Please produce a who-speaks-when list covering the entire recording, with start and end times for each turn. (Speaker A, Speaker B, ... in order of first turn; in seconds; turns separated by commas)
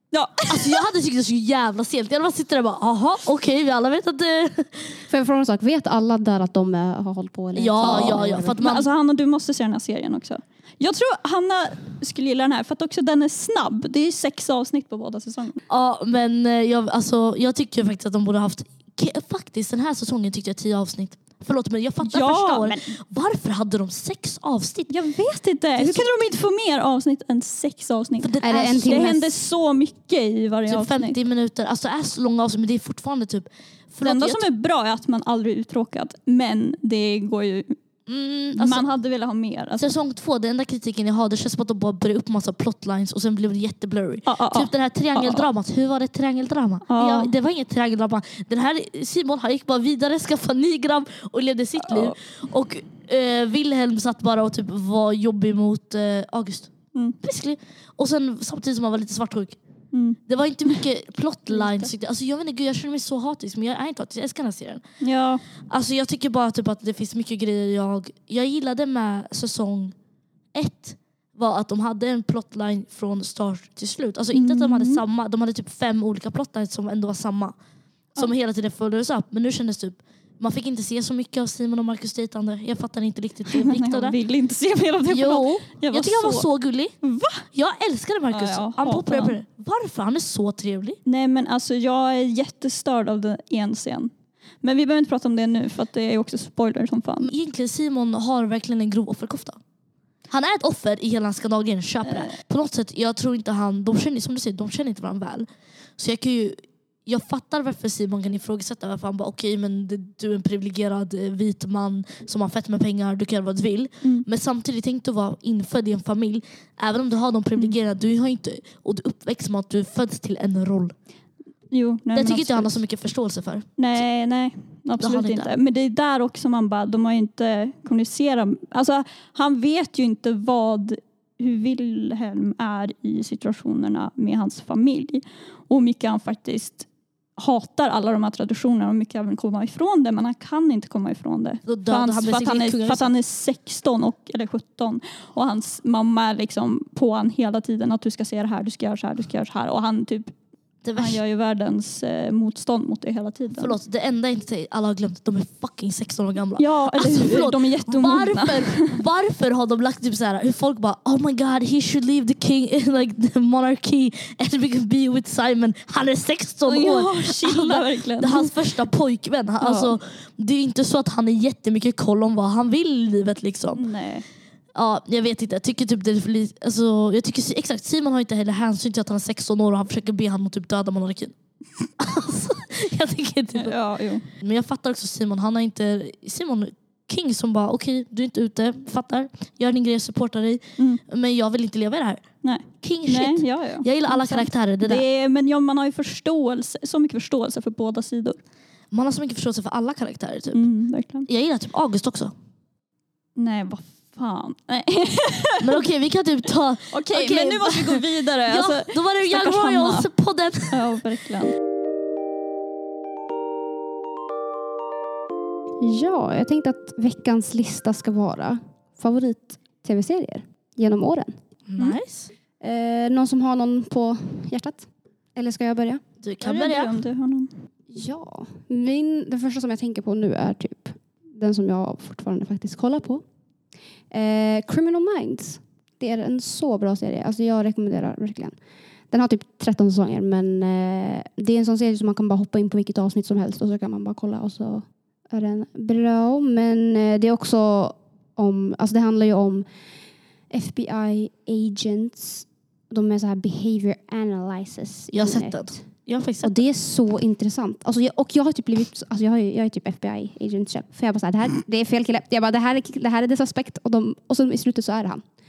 Speaker A: 0.1-0.9, Speaker B: 0.5-5.0, Speaker C: 5.1-8.6, Speaker B: 7.5-8.9, Speaker A: 7.8-15.6, Speaker B: 15.7-24.9, Speaker A: 22.0-22.9, Speaker A: 24.9-31.2, Speaker B: 25.7-26.1, Speaker B: 28.2-29.1, Speaker C: 28.4-29.3, Speaker B: 30.7-34.4, Speaker A: 34.0-37.8, Speaker B: 38.1-38.9, Speaker A: 38.5-39.9, Speaker B: 39.8-59.6, Speaker A: 44.3-45.5, Speaker A: 46.9-47.3, Speaker A: 51.8-52.2, Speaker A: 59.9-60.8, Speaker B: 60.2-64.8, Speaker A: 61.5-61.9, Speaker A: 65.0-65.4, Speaker B: 65.6-69.9, Speaker B: 70.5-77.6, Speaker A: 74.3-75.0, Speaker B: 78.1-84.2, Speaker A: 83.5-86.5, Speaker B: 85.1-87.0, Speaker A: 87.0-87.5, Speaker B: 87.5-91.0, Speaker A: 88.3-89.4, Speaker A: 91.0-97.3, Speaker B: 97.2-99.6, Speaker B: 100.3-120.9, Speaker A: 102.0-102.4, Speaker A: 114.0-114.3, Speaker A: 121.7-122.8, Speaker B: 122.1-124.0, Speaker A: 123.8-150.3, Speaker B: 125.0-125.5, Speaker B: 141.7-143.1, Speaker B: 150.8-151.2, Speaker A: 150.9-153.8, Speaker B: 153.5-173.9, Speaker A: 156.6-159.0, Speaker A: 166.7-168.7, Speaker A: 169.6-169.9, Speaker A: 173.8-174.3, Speaker B: 174.7-181.3, Speaker B: 182.0-192.3, Speaker A: 183.6-184.2, Speaker A: 190.8-191.0, Speaker A: 192.4-198.4, Speaker B: 192.8-195.0, Speaker B: 198.9-200.7, Speaker A: 200.5-201.3, Speaker B: 201.2-202.3, Speaker A: 203.3-205.8, Speaker B: 205.6-211.0, Speaker A: 206.9-210.1, Speaker A: 210.7-211.6, Speaker C: 215.8-221.3, Speaker B: 221.7-222.3, Speaker C: 222.6-226.0, Speaker B: 226.2-227.0, Speaker A: 226.4-227.6, Speaker C: 227.9-233.2, Speaker C: 234.1-238.6, Speaker C: 239.1-249.7, Speaker C: 250.5-265.2, Speaker B: 255.1-256.6